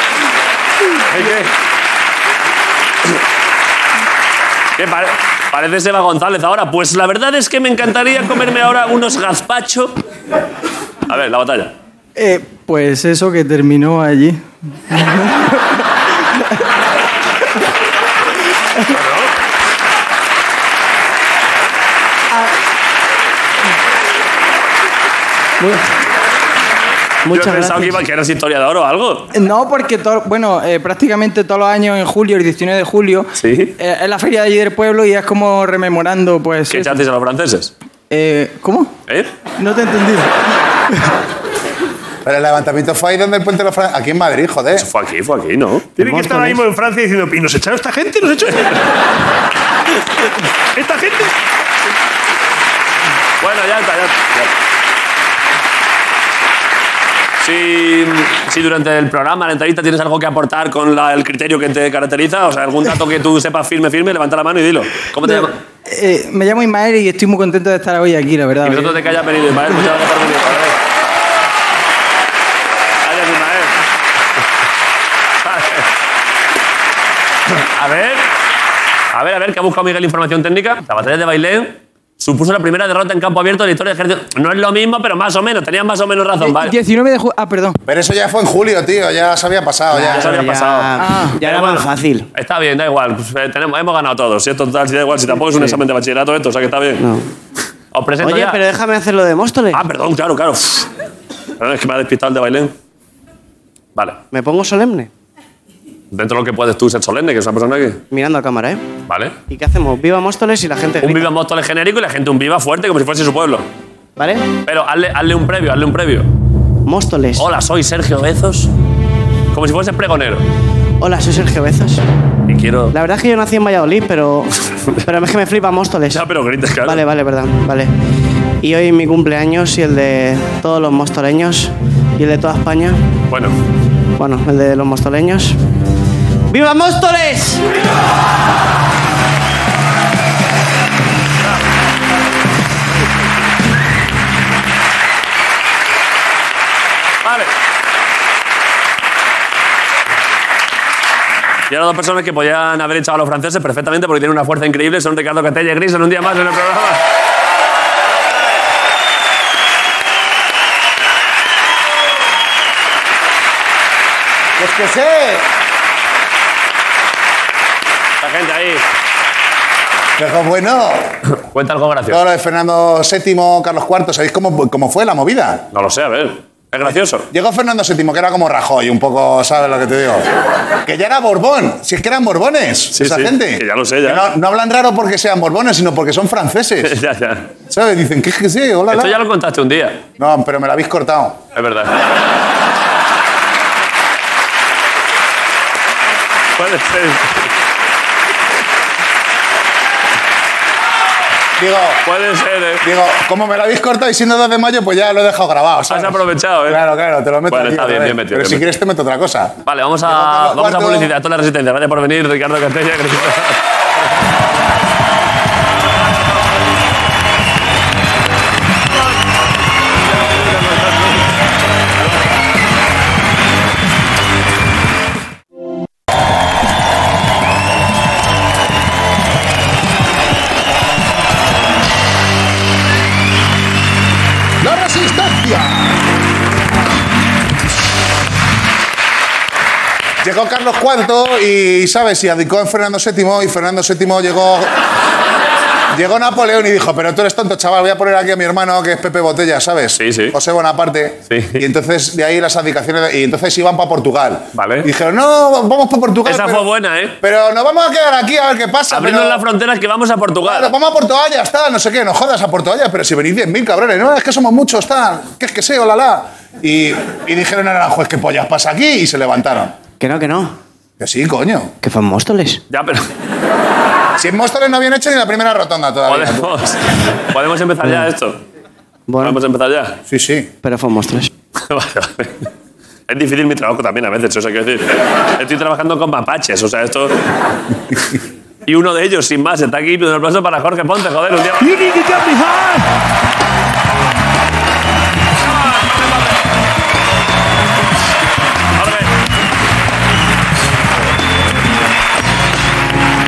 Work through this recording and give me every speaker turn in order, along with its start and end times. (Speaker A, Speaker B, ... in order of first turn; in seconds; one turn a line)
Speaker A: 1.1-1.5
Speaker A: 4.8-10.0
Speaker A: 11.1-11.7
Speaker B: 12.2-15.8
Speaker C: 27.2-28.0
Speaker A: 27.3-29.3
Speaker B: 29.3-37.0
Speaker A: 33.4-33.8
Speaker A: 36.7-37.7
Speaker B: 38.1-38.9
Speaker B: 39.6-40.4
Speaker D: 42.2-44.9
Speaker A: 44.8-45.9
Speaker E: 46.0-48.8
Speaker C: 46.0-46.6
Speaker E: 50.8-51.3
Speaker A: 53.4-54.5
Speaker A: 57.4-65.5
Speaker B: 65.2-69.0
Speaker A: 68.6-70.8
Speaker A: 73.0-73.8
Speaker A: 75.4-75.9
Speaker A: 77.5-78.2
Speaker A: 79.1-86.8
Speaker B: 86.4-87.8
Speaker D: 87.9-90.5
Speaker C: 89.9-92.3
Speaker A: 90.1-97.0
Speaker B: 91.0-91.4
Speaker C: 95.5-95.8
Speaker C: 97.0-97.3
Speaker A: 97.9-98.6
Speaker C: 98.2-99.8
Speaker A: 99.7-100.9
Speaker A: 101.6-102.7
Speaker C: 104.3-105.1
Speaker A: 106.1-108.0
Speaker C: 108.1-108.9
Speaker A: 109.1-109.3
Speaker C: 109.5-111.3
Speaker A: 111.0-113.7
Speaker C: 114.2-114.5
Speaker A: 114.7-116.3
Speaker C: 116.9-117.5
Speaker A: 117.4-118.7
Speaker A: 119.5-120.5
Speaker C: 121.0-122.0
Speaker A: 122.5-122.9
Speaker C: 122.9-126.2
Speaker A: 126.1-127.0
Speaker C: 126.8-127.9
Speaker C: 128.6-133.0
Speaker A: 133.3-133.5
Speaker C: 134.2-135.6
Speaker C: 136.5-137.6
Speaker A: 147.2-147.5
Speaker A: 151.7-157.0
Speaker D: 164.6-165.5
Speaker A: 168.2-168.8
Speaker D: 170.2-171.2
Speaker A: 171.4-172.2
Speaker D: 172.1-175.6
Speaker A: 175.7-177.3
Speaker D: 177.3-180.2
Speaker D: 180.8-187.0
Speaker A: 182.9-184.2
Speaker A: 186.8-187.5
Speaker D: 187.7-189.2
Speaker A: 188.9-190.0
Speaker D: 190.2-191.4
Speaker A: 191.5-192.0
Speaker A: 196.6-197.5
Speaker D: 201.6-202.0
Speaker A: 202.0-202.8
Speaker D: 202.8-211.1
Speaker A: 205.9-206.8
Speaker A: 207.5-208.6
Speaker A: 209.6-213.6
Speaker A: 220.2-221.1
Speaker D: 234.6-235.9
Speaker D: 240.2-244.7
Speaker D: 245.9-256.7
Speaker A: 250.0-250.4
Speaker A: 251.3-251.6
Speaker A: 254.5-254.9
Speaker A: 256.2-257.1
Speaker D: 257.2-259.4
Speaker A: 258.9-260.7
Speaker D: 260.4-269.7
Speaker C: 270.0-270.5
Speaker D: 271.0-271.7
Speaker C: 271.8-272.6
Speaker A: 272.7-273.1
Speaker D: 274.2-276.6
Speaker A: 276.1-278.4
Speaker C: 279.1-279.4
Speaker A: 279.2-280.0
Speaker D: 280.1-280.5
Speaker C: 280.6-281.3
Speaker A: 281.6-282.5
Speaker A: 283.1-287.2
Speaker A: 288.6-292.0
Speaker E: 291.6-292.9
Speaker A: 295.4-296.4
Speaker A: 298.8-299.1